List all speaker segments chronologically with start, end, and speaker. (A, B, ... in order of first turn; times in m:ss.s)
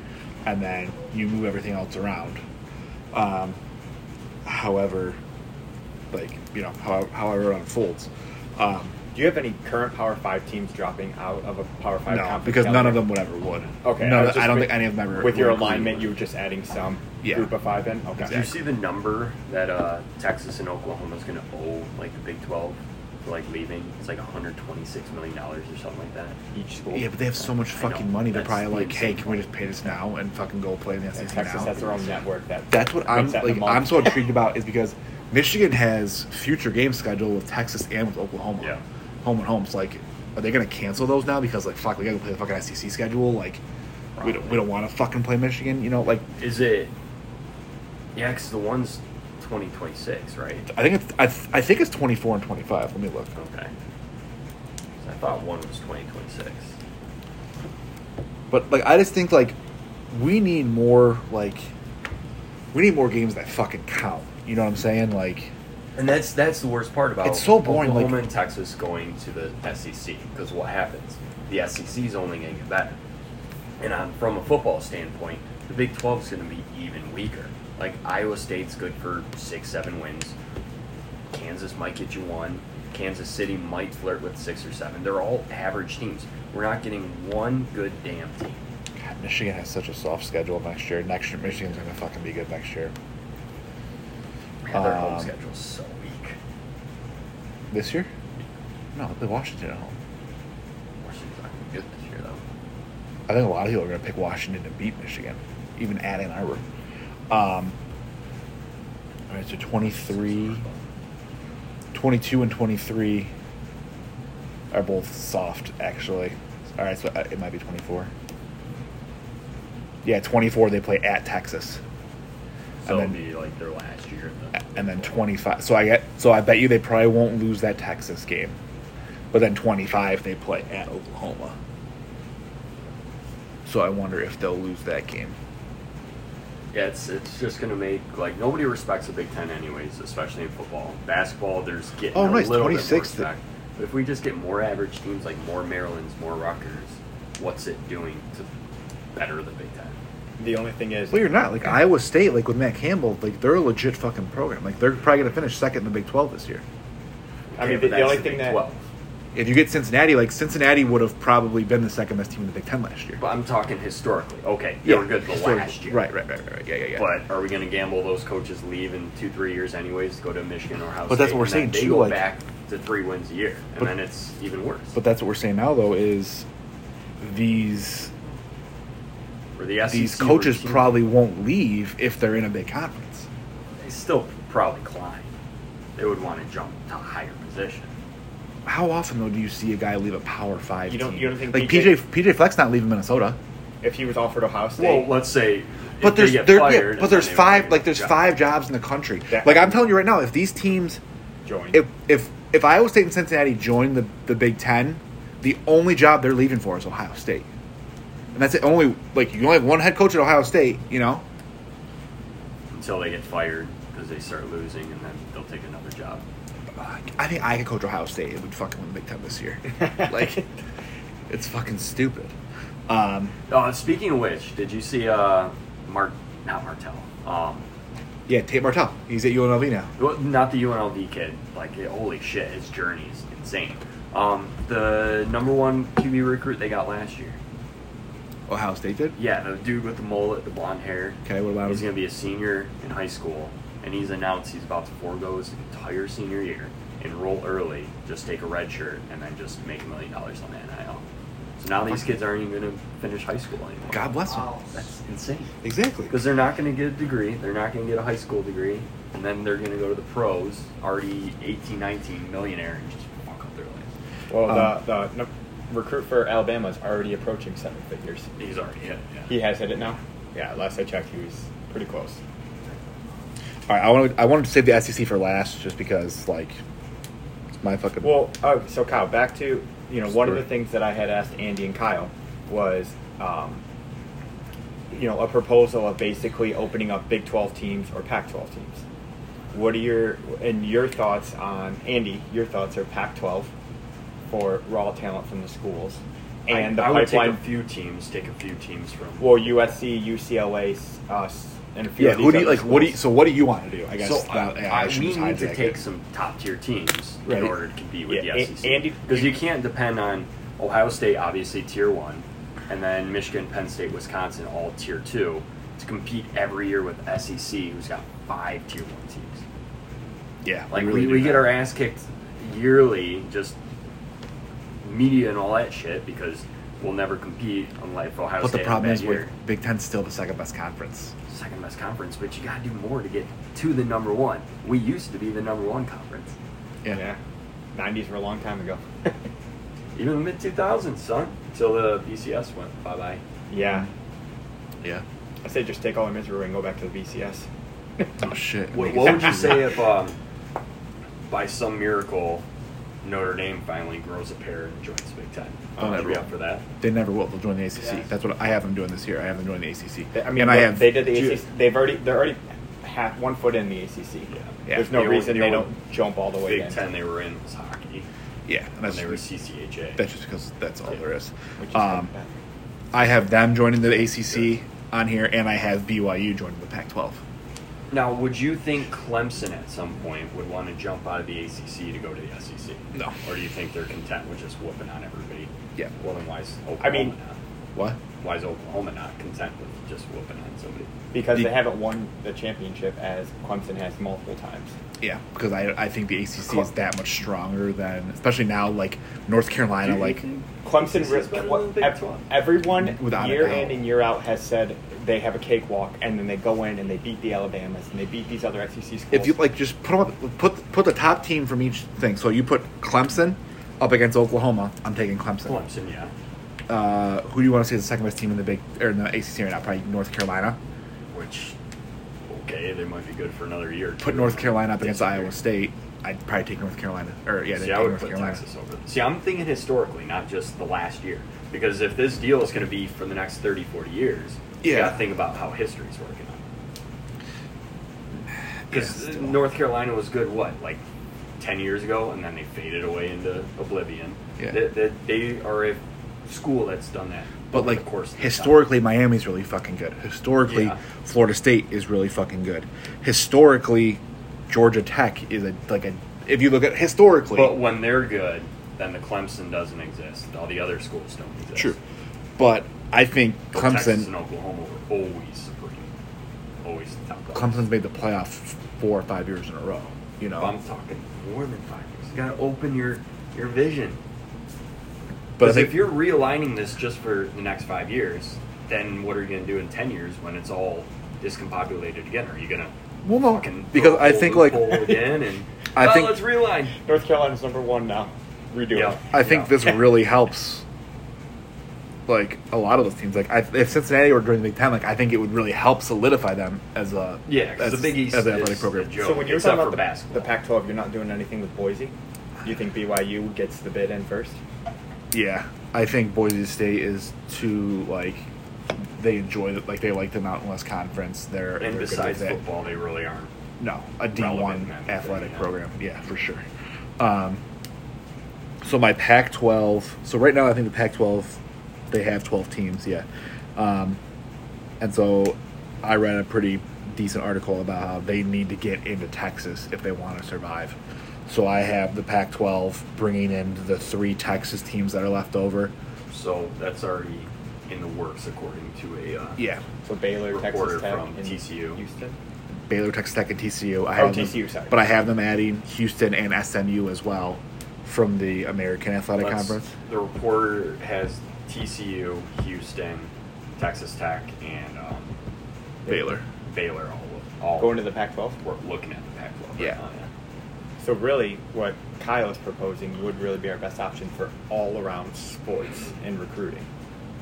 0:00.4-0:02.4 A
0:03.1-0:03.6 A
0:04.4-0:05.2 A
0:06.1-0:09.0 A
0:09.1-0:13.1 B
0:12.1-0:16.1 A
0:13.8-0:18.5 B
0:17.2-0:17.5 A
0:18.2-0:18.5 A
0:18.3-0:26.4 C
0:26.5-0:27.2 B
0:26.9-0:31.8 A
0:27.7-0:29.5 C
0:31.2-0:34.2 B
0:32.7-0:43.6 A
0:44.2-0:44.7 C
0:44.2-0:46.3 A
0:46.4-0:47.0 C
0:48.2-0:50.7 C
0:50.7-0:53.3 A
0:53.4-0:53.7 C
0:55.0-0:56.8 C
0:58.5-0:59.6 A
1:00.1-1:01.7 A
1:02.7-1:05.5 A
1:06.0-1:13.0 C
1:07.2-1:08.2 A
1:13.8-1:20.4 C
1:21.3-1:28.6 C
1:29.0-1:32.9 A
1:34.6-1:36.4 C
1:34.7-1:35.3 A
1:37.7-1:38.1 A
1:38.9-1:40.0 A
1:41.0-1:42.4 C
1:43.3-1:46.7 A
1:47.3-1:47.8 A
1:49.3-1:50.6 A
1:49.8-1:50.8 C
1:51.9-1:53.3 A
1:54.7-1:58.1 A
2:00.0-2:01.8 A
2:02.8-2:05.2 C
2:02.8-2:03.2 A
2:04.6-2:08.6 A
2:09.3-2:11.6 A
2:13.6-2:15.4 A
2:16.7-2:28.5 C
2:22.1-2:23.3 A
2:29.2-2:30.0 C
2:30.4-2:31.3 B
2:31.1-2:36.6 A
2:37.5-2:38.9 C
2:37.6-2:38.6 B
2:39.3-2:43.2 A
2:43.2-2:46.1 C
2:44.8-2:47.1 A
2:47.0-2:55.0 C
2:51.1-2:52.2 A
2:54.9-2:56.5 A
2:57.2-2:58.1 A
2:59.6-3:01.0 C
2:59.9-3:03.3 A
3:03.8-3:05.4 C
3:06.0-3:08.0 C
3:08.6-3:13.4 A
3:10.9-3:12.0 B
3:13.8-3:15.1 B
3:14.8-3:18.3 C
3:16.0-3:21.0 A
3:19.3-3:20.0 B
3:21.4-3:21.8 B
3:21.7-3:27.5 A
3:28.3-3:31.2 A
3:32.7-3:36.2 C
3:36.8-3:40.5 A
3:41.3-3:42.4 A
3:42.9-3:43.4 A
3:43.5-3:47.7 C
3:48.3-3:49.9 A
3:50.0-3:57.4 C
3:58.5-3:59.2 A
3:59.2-4:11.0 C
4:01.2-4:01.9 A
4:11.6-4:15.5 C
4:13.9-4:14.6 A
4:15.6-4:16.2 A
4:16.1-4:23.9 C
4:24.3-4:28.3 B
4:24.5-4:24.7 A
4:28.4-4:29.4 C
4:29.3-4:32.2 B
4:33.7-4:36.6 A
4:37.6-4:38.2 A
4:38.0-4:43.6 B
4:40.1-4:40.4 A
4:44.9-4:48.8 B
4:49.5-4:53.5 B
4:54.3-4:57.4 B
4:56.5-4:59.5 C
4:59.2-5:03.0 B
5:02.0-5:05.8 A
5:04.0-5:19.4 C
5:07.3-5:07.5 A
5:08.1-5:09.4 B
5:20.4-5:21.5 A
5:20.7-5:23.6 C
5:24.8-5:29.3 C
5:28.4-5:31.1 A
5:31.3-5:36.4 C
5:36.9-5:37.2 B
5:37.7-5:39.2 B
5:40.0-5:43.2 C
5:43.5-5:43.9 B
5:43.6-5:43.9 A
5:45.4-5:47.5 B
5:48.2-5:49.7 A
5:48.7-5:50.2 C
5:51.3-5:52.5 C
5:53.0-5:56.7 C
5:55.8-5:56.2 B
5:55.8-5:56.2 A
5:56.8-6:01.3 A
6:00.1-6:06.8 B
6:04.3-6:05.7 C
6:04.7-6:05.0 A
6:06.4-6:08.1 C
6:08.5-6:09.2 A
6:08.8-6:10.0 C
6:10.0-6:12.1 A
6:11.6-6:12.3 B
6:12.9-6:17.2 A
6:17.9-6:27.4 C
6:26.8-6:27.2 B
6:28.2-6:30.9 C
6:31.1-6:34.8 B
6:35.0-6:40.2 A
6:39.8-6:42.3 C
6:40.6-6:49.4 B
6:42.8-6:43.8 A
6:49.1-6:55.6 A
6:55.4-6:56.1 C
6:56.7-7:00.6 A
7:01.1-7:01.6 C
7:02.3-7:05.4 C
7:04.0-7:08.4 A
7:07.6-7:16.4 C
7:14.6-7:15.0 A
7:18.7-7:19.4 A
7:18.7-7:20.8 C
7:21.4-7:28.7 C
7:27.5-7:37.6 A
7:30.4-7:30.8 C
7:37.3-7:41.8 C
7:42.4-7:44.1 A
7:43.5-7:45.9 C
7:46.6-7:47.7 C
7:47.3-7:50.5 A
7:50.4-7:54.0 C
7:55.4-7:55.9 A
7:55.4-8:06.8 C
8:03.0-8:05.0 A
8:05.8-8:06.2 A
8:06.8-8:09.0 B
8:08.7-8:09.8 C
8:09.1-8:10.6 A
8:12.1-8:19.0 A
8:17.3-8:20.3 C
8:19.0-8:24.4 B
8:25.1-8:32.4 A
8:31.6-8:33.3 C
8:33.6-8:36.5 A
8:34.1-8:35.5 C
8:37.0-8:37.4 A
8:38.6-8:44.0 A
8:44.8-8:55.8 A
8:56.1-8:59.4 C
8:59.4-8:59.6 A
8:59.8-9:02.2 B
9:00.3-9:01.8 C
9:02.5-9:09.7 A
9:04.0-9:04.8 B
9:09.2-9:15.2 C
9:15.8-9:16.1 B
9:15.9-9:16.2 A
9:16.4-9:20.1 C
9:17.6-9:18.4 B
9:20.8-9:26.7 B